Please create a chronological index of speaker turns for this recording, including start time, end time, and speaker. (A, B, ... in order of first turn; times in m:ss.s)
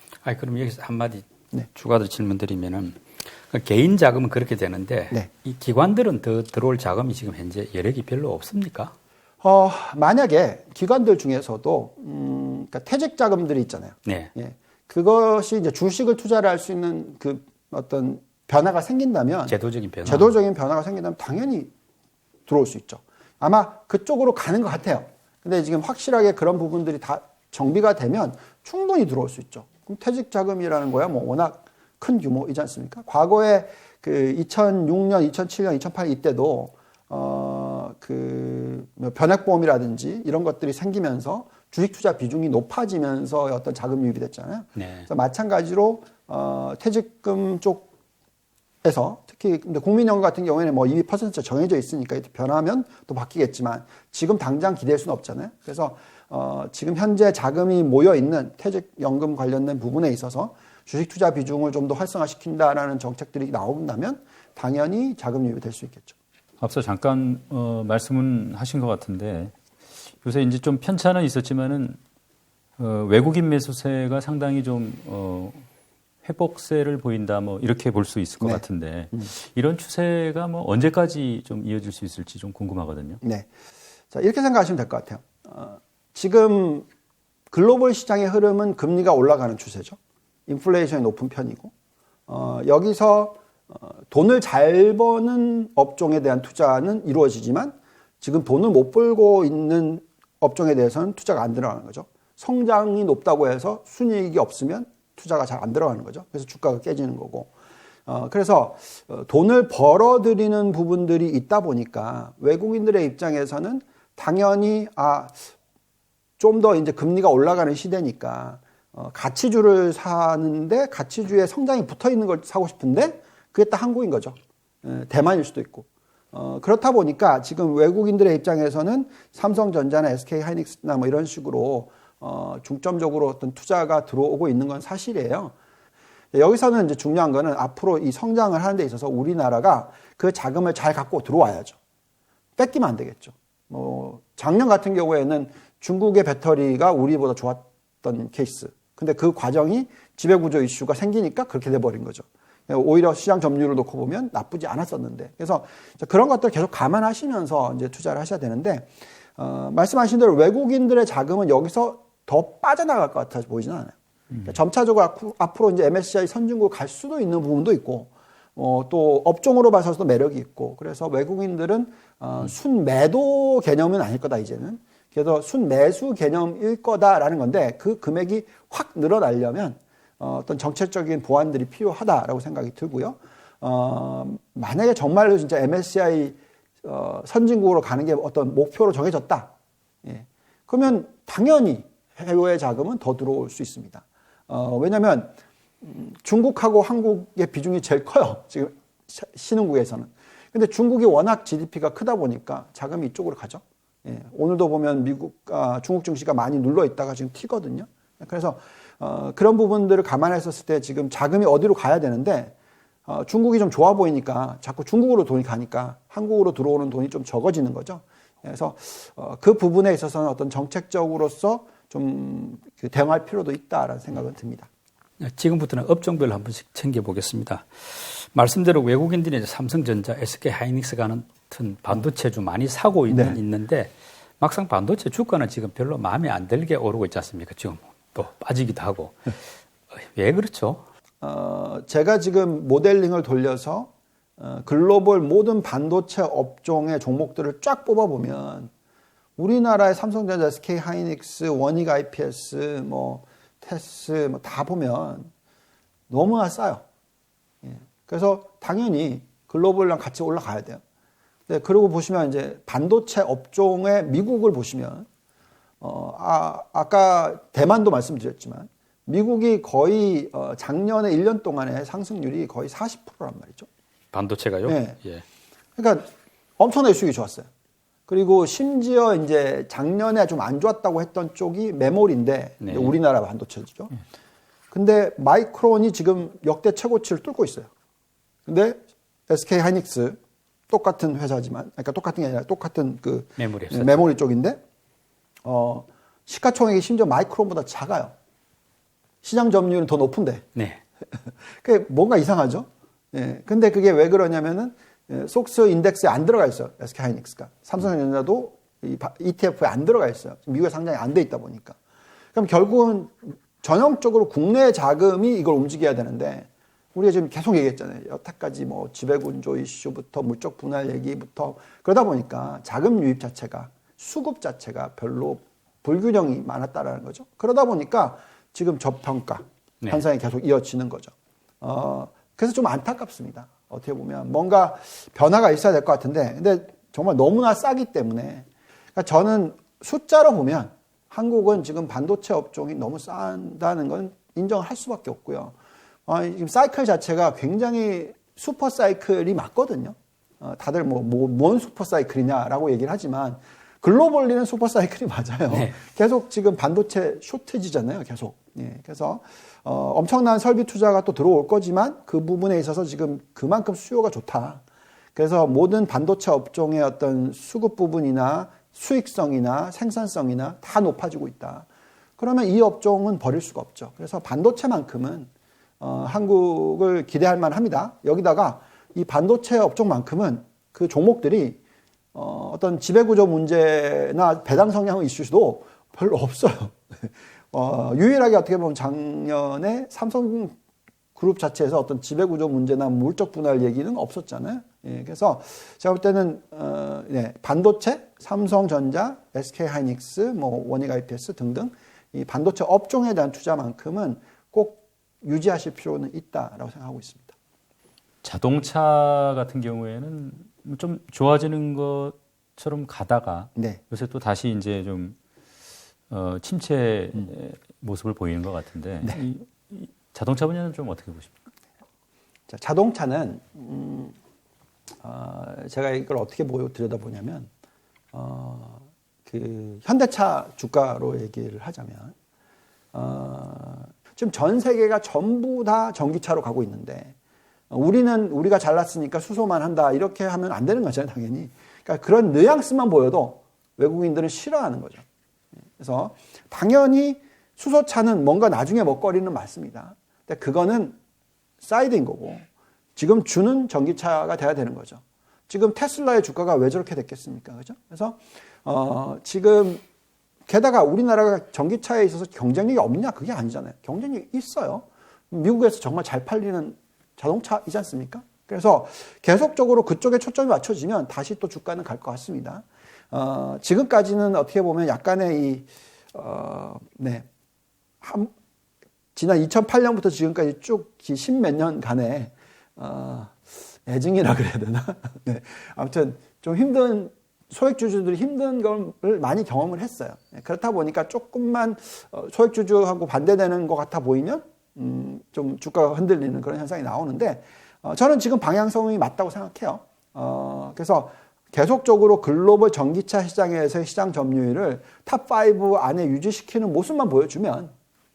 0:00.2-0:08.9 A
0:09.4-0:21.7 B
0:14.1-0:14.3 A
0:19.5-0:20.3 A
0:22.5-0:47.9 B
0:44.8-0:45.1 A
0:48.8-1:06.2 B
1:06.6-1:12.0 C
1:12.8-1:15.7 C
1:16.2-1:23.2 C
1:18.4-1:19.3 B
1:23.2-1:23.5 B
1:24.1-1:26.9 B
1:27.5-1:31.7 B
1:32.3-1:47.5 B
1:48.1-1:55.4 B
1:56.4-2:15.5 B
2:16.3-2:21.8 B
2:22.6-3:09.5 B
3:10.0-3:32.5 B
3:33.1-3:44.7 B
3:45.2-3:59.4 A
3:53.1-3:53.4 B
3:59.9-4:00.8 A
4:01.2-4:08.7 B
4:09.4-4:15.3 B
4:16.1-4:16.8 B
4:17.6-4:20.8 B
4:21.5-4:25.1 B
4:25.8-4:33.7 B
4:34.1-4:35.2 A
4:34.6-4:35.0 B
4:35.8-4:37.5 B
4:38.1-4:43.9 B
4:42.6-4:43.0 A
4:44.7-4:47.7 B
4:48.5-4:50.2 B
4:50.7-4:54.6 B
4:53.4-4:53.9 A
4:55.4-4:58.1 B
4:59.2-5:00.5 B
5:00.6-5:00.8 A
5:01.3-5:11.8 B
5:12.3-5:45.6 B
5:46.1-6:04.6 B
5:55.5-5:55.8 A
6:05.2-6:11.7 B
6:12.2-6:15.3 B
6:15.8-6:21.6 B
6:22.1-6:30.6 B
6:31.2-6:47.4 B
6:48.2-6:55.2 C
6:56.1-7:01.4 C
7:02.5-7:04.2 B
7:05.0-7:07.5 B
7:08.1-7:12.1 B
7:12.9-7:17.1 B
7:17.7-7:25.0 B
7:25.8-7:31.0 B
7:31.6-7:39.8 B
7:40.5-7:57.3 B
7:58.0-7:58.3 B
7:59.1-8:27.7 B